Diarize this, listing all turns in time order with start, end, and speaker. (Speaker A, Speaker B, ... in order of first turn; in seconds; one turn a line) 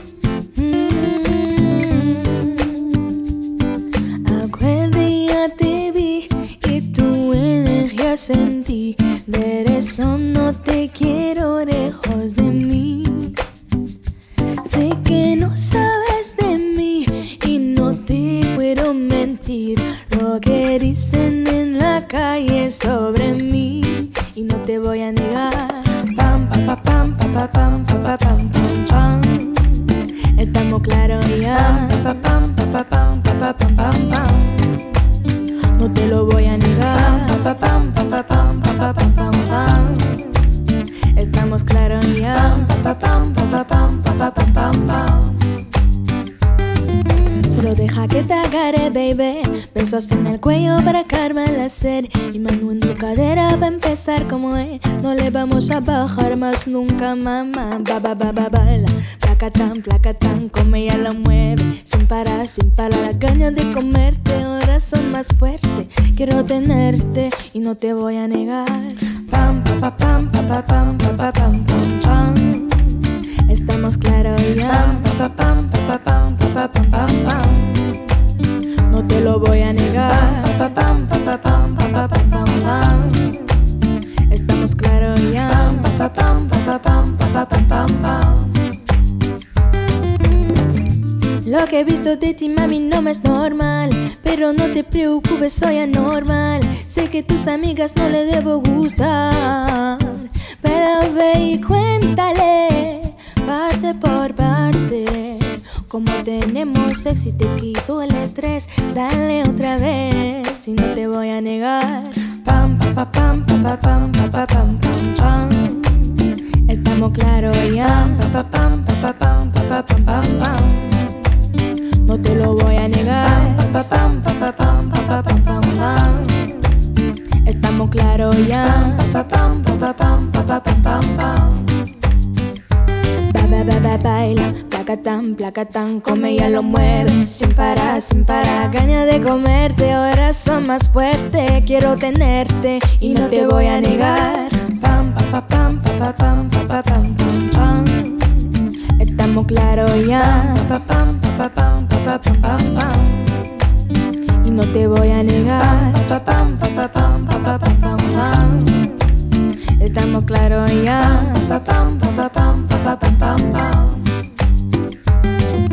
Speaker A: 0.5-3.3
Speaker A: 4.1-13.4
Speaker A: 14.6-34.9
Speaker A: 35.6-45.6
Speaker A: 47.4-78.2
Speaker A: 78.8-88.7
Speaker A: 91.4-121.3
Speaker A: 122.0-126.9
Speaker A: 127.4-131.8
Speaker A: 133.2-153.7
Speaker A: 154.4-164.2